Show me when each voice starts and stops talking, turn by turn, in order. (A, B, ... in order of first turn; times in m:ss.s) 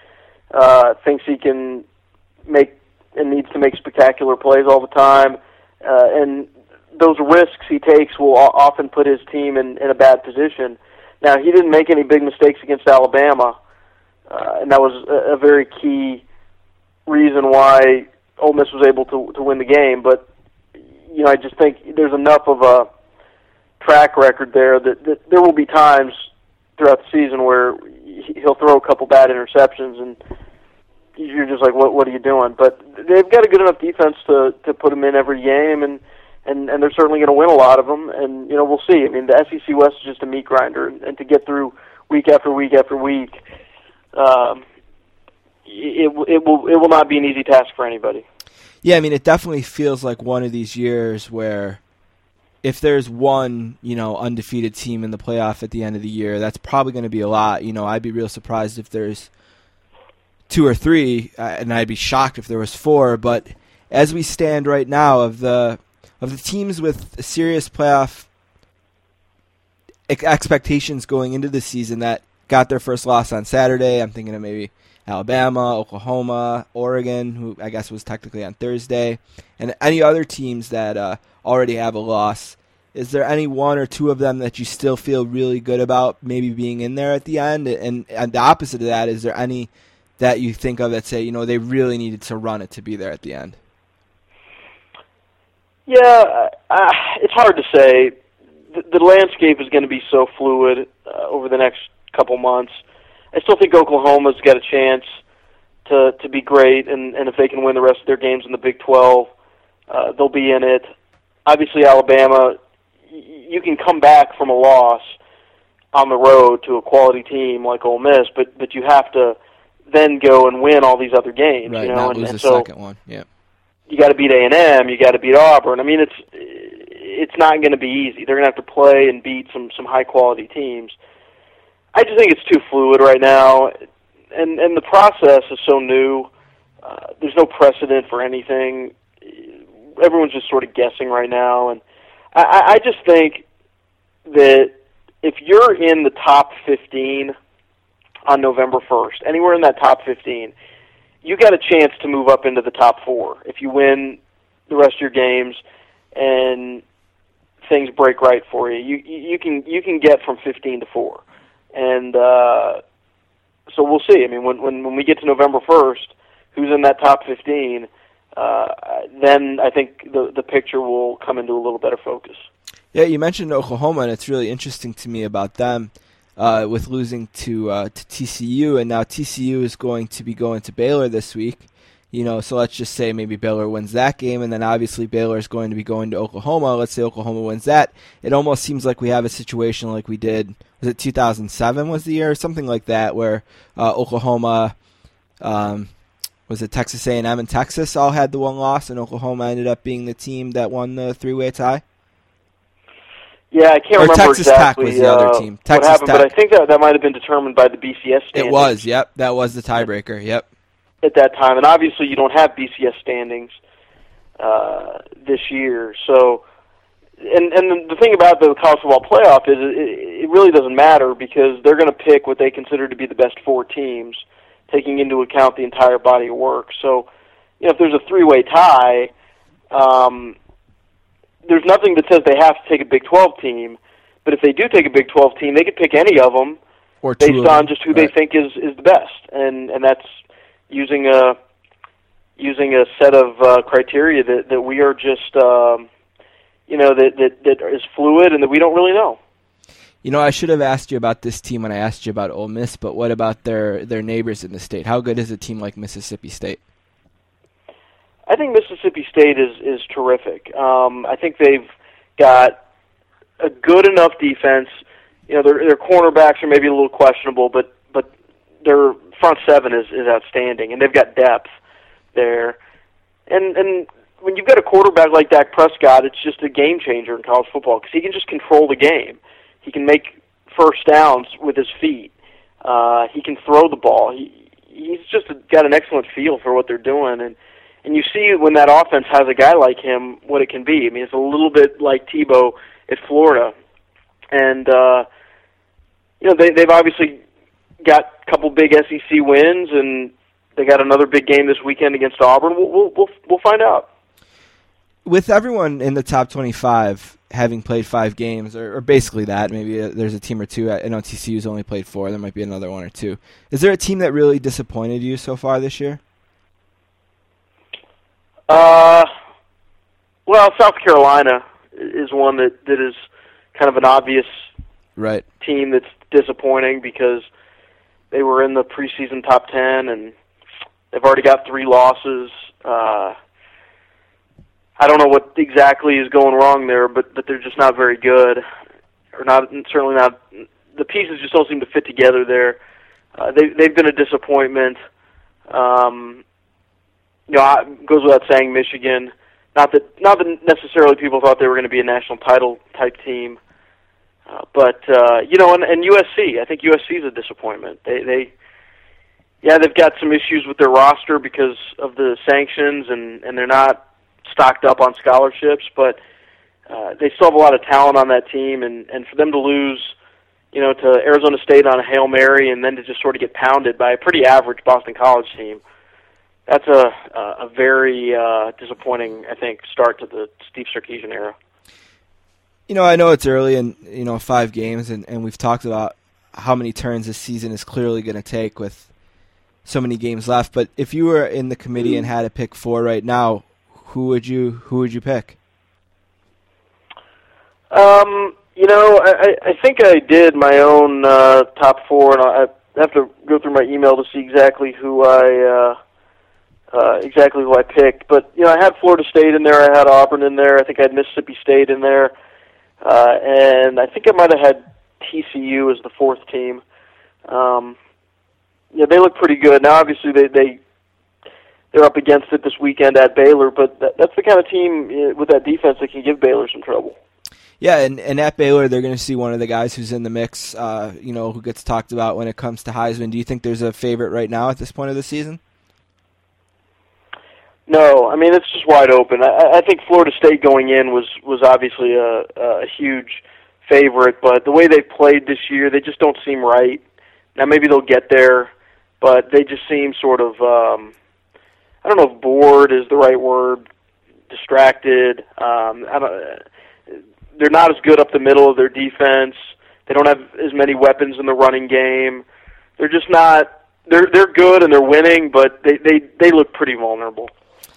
0:00.5-0:01.8 A
0:02.5-0:13.6 A
0:14.3-0:16.2 A
0:17.1-0:20.3 A
0:21.1-0:22.9 A
0:23.8-0:26.2 A
0:26.8-0:30.2 A
0:31.2-0:43.4 A
0:44.1-0:44.6 A
0:45.7-0:48.2 A
0:48.8-0:51.8 B
0:52.6-0:59.3 B
1:00.5-1:08.3 B
1:10.1-1:33.6 B
1:35.9-1:38.2 A
1:38.7-1:42.8 A
1:43.3-1:45.1 A
1:45.9-1:49.3 A
1:49.9-1:50.9 A
1:51.5-1:52.6 A
1:53.1-1:55.2 A
1:55.9-1:59.4 A
1:59.9-2:02.7 A
2:01.7-2:03.3 B
2:03.9-2:11.0 A
2:11.9-2:13.7 A
2:14.3-2:16.3 A
2:16.8-2:21.8 A
2:22.3-2:23.4 A
2:24.3-2:27.4 A
2:28.3-2:30.5 A
2:31.2-2:34.2 A
2:34.7-2:35.6 A
2:36.1-2:36.8 A
2:37.6-2:41.2 A
2:41.7-2:42.8 A
2:43.7-2:52.4 A
2:52.9-3:14.8 B
3:15.4-3:15.9 B
3:16.5-3:21.8 B
3:23.5-3:28.8 A
3:24.0-3:26.3 B
3:28.3-3:30.5 B
3:31.0-3:33.6 A
3:34.4-3:36.4 A
3:37.2-3:47.1 A
3:47.6-3:49.1 A
3:49.7-3:50.4 A
3:51.5-3:56.6 A
3:57.0-3:58.1 B
3:57.2-4:00.1 A
4:00.7-4:01.4 A
4:02.4-4:05.9 A
4:06.7-4:09.2 A
4:10.0-4:16.6 B
4:18.3-4:22.6 A
4:23.4-4:24.7 A
4:25.3-4:28.1 A
4:28.6-4:31.5 A
4:32.1-4:32.6 A
4:33.3-4:42.1 A
4:42.6-4:53.5 A
4:54.3-4:55.1 A
4:56.2-4:57.2 A
4:57.8-5:03.9 A
5:05.0-5:16.0 B
5:18.5-5:19.1 A
5:20.3-5:23.0 A
5:23.6-5:24.3 A
5:25.0-5:25.3 B
5:25.4-5:27.2 A
5:28.1-5:30.1 A
5:30.9-5:33.2 A
5:34.8-5:38.4 A
5:39.2-5:40.2 A
5:40.7-5:42.6 A
5:43.2-5:44.8 A
5:45.5-5:46.2 A
5:47.3-5:53.4 A
5:54.3-5:58.3 A
5:59.4-6:06.0 A
6:06.7-6:09.9 A
6:10.5-6:15.6 A
6:16.5-6:21.4 A
6:22.7-6:28.9 B
6:29.6-6:35.4 B
6:37.7-6:45.8 A
6:46.7-6:52.1 A
6:52.8-6:56.6 A
6:57.3-6:57.8 A
6:58.7-7:00.6 A
7:01.7-7:07.0 A
7:07.6-7:15.4 B
7:17.7-7:26.8 A
7:27.4-7:28.5 A
7:29.0-7:30.9 A
7:31.8-7:33.6 A
7:34.3-7:36.4 A
7:37.4-7:42.2 A
7:42.8-7:47.3 A